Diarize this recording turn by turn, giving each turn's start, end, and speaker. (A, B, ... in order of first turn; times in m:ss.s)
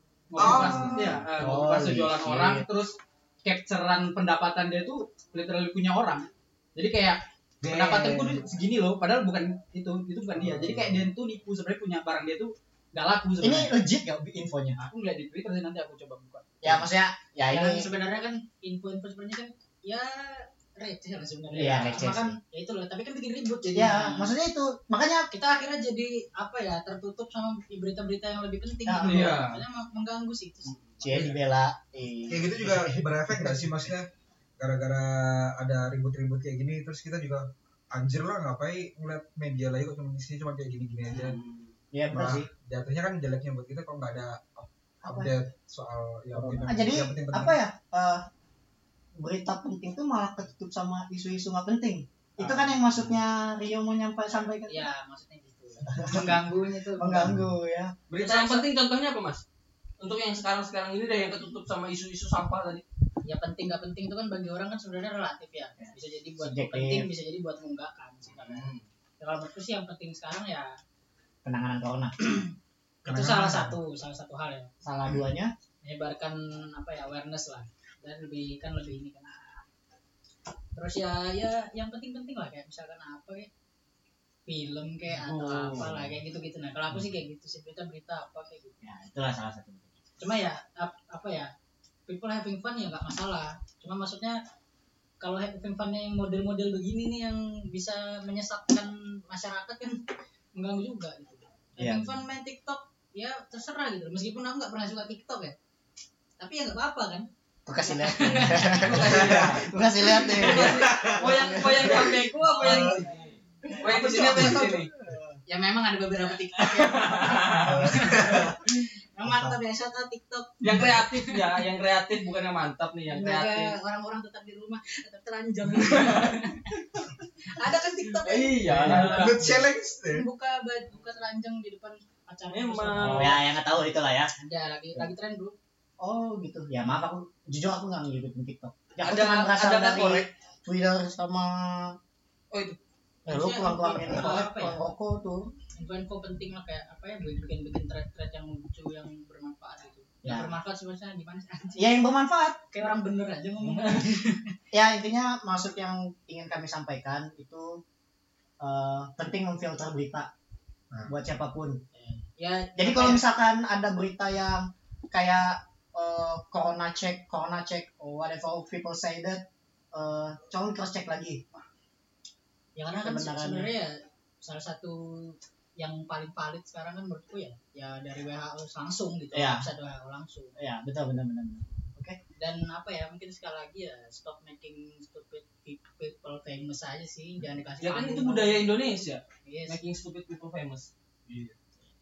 0:00.3-0:13.7 A
0:00.4-0:01.3 B
0:00.4-0:02.7 C
0:07.6-0:08.5 B
0:10.4-0:11.1 B
0:13.4-0:14.8 C
0:14.8-0:16.9 A
0:16.6-0:17.9 C
0:17.5-0:24.3 D
0:21.5-0:22.4 C
0:21.6-0:21.9 A
0:23.7-0:25.3 C
0:25.3-0:30.8 D
0:28.9-0:29.4 C
0:29.0-0:29.6 A
0:31.0-0:33.6 C
0:31.1-0:31.4 B
0:32.3-0:41.4 B
0:41.1-0:41.7 E
0:41.9-0:42.5 C
0:42.1-0:47.6 B
0:45.0-0:45.3 C
0:46.3-0:46.8 A
0:46.7-0:48.3 C
0:49.2-0:54.9 C
0:52.4-0:52.7 A
0:54.7-0:57.4 D
0:55.9-0:56.4 C
0:57.0-0:58.0 C
0:58.1-0:59.4 E
0:58.2-0:58.6 D
1:00.0-1:02.8 E
1:03.2-1:10.8 D
1:05.8-1:07.1 C
1:08.4-1:08.8 E
1:11.4-1:12.2 C
1:12.2-1:12.5 D
1:13.0-1:14.7 D
1:13.1-1:13.8 B
1:14.8-1:15.5 C
1:15.8-1:19.6 D
1:20.8-1:23.5 D
1:24.5-1:28.8 D
1:25.1-1:26.1 C
1:28.8-1:29.9 C
1:30.2-1:31.5 D
1:32.1-1:34.4 D
1:35.2-1:40.0 D
1:40.6-1:45.6 D
1:41.8-1:42.2 C
1:46.4-1:47.3 D
1:47.7-1:52.2 C
1:47.8-1:49.5 D
1:48.7-1:49.6 E
1:49.0-1:49.7 B
1:50.3-1:53.3 D
1:50.4-1:53.2 E
1:50.4-1:51.5 B
1:52.6-1:53.0 B
1:53.8-1:54.9 E
1:53.9-1:54.6 D
1:54.0-1:54.8 B
1:54.1-1:54.6 C
1:55.5-2:01.5 D
1:56.7-1:57.8 E
1:57.6-1:58.7 B
1:59.2-1:59.6 B
2:00.6-2:03.8 E
2:03.1-2:06.9 D
2:07.4-2:13.4 D
2:08.2-2:09.5 A
2:08.7-2:09.3 E
2:08.9-2:10.3 B
2:12.5-2:13.4 E
2:13.0-2:14.3 C
2:14.4-2:15.6 D
2:16.0-2:22.0 C
2:19.0-2:20.3 E
2:22.5-2:22.8 E
2:23.3-2:24.8 D
2:23.3-2:25.5 C
2:25.8-2:32.0 D
2:30.2-2:30.6 C
2:31.8-2:32.6 C
2:32.7-2:34.5 D
2:34.7-2:37.8 C
2:38.6-2:40.3 C
2:41.1-2:41.8 C
2:41.9-2:43.2 D
2:42.8-2:51.4 C
2:52.8-3:00.6 D
2:53.0-2:53.7 C
2:59.3-2:59.7 C
3:00.6-3:02.2 C
3:02.4-3:08.8 D
3:07.8-3:11.5 E
3:09.4-3:09.8 D